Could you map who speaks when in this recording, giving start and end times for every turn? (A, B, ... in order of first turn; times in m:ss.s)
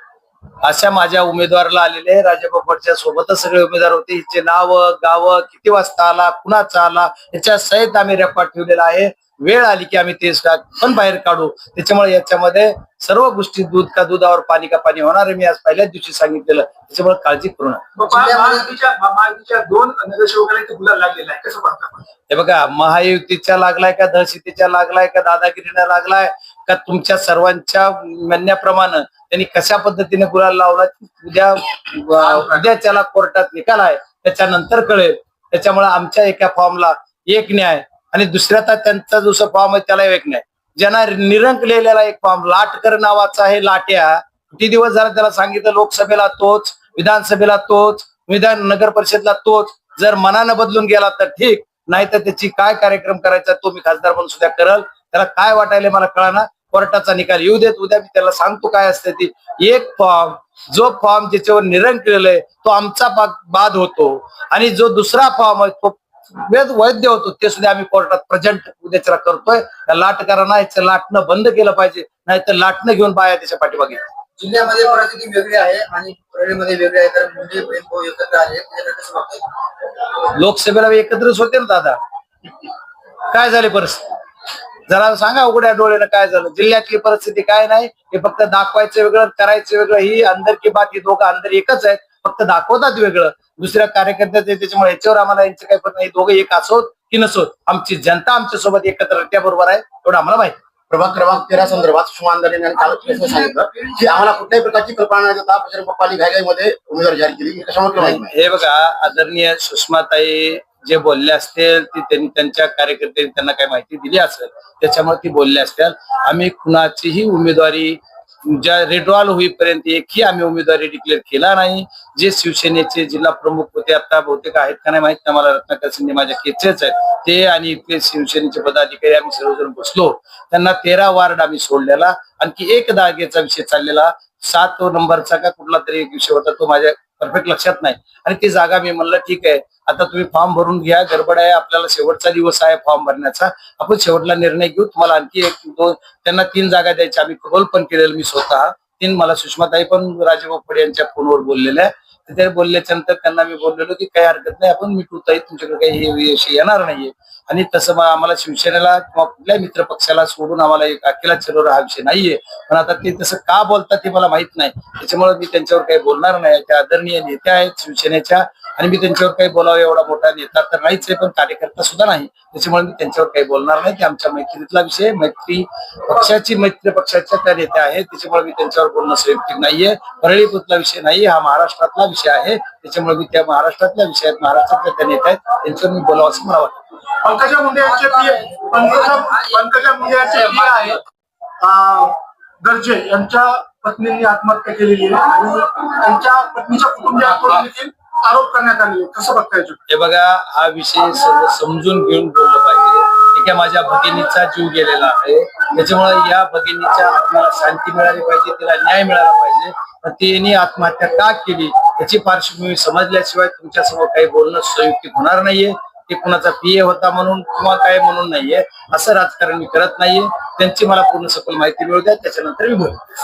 0:00.6-0:17.8 A
0:18.0-0:22.0 B
0:18.3-0:18.5 C
0:22.3-1:14.0 A
1:14.4-1:19.5 C
1:20.3-1:22.0 A
1:23.3-1:24.0 A
1:24.9-1:40.6 A
1:40.9-1:48.3 D
1:48.0-3:06.8 A
3:07.2-3:11.0 B
3:08.0-3:09.6 C
3:10.2-3:11.0 C
3:11.6-3:19.8 B
3:19.9-3:43.0 A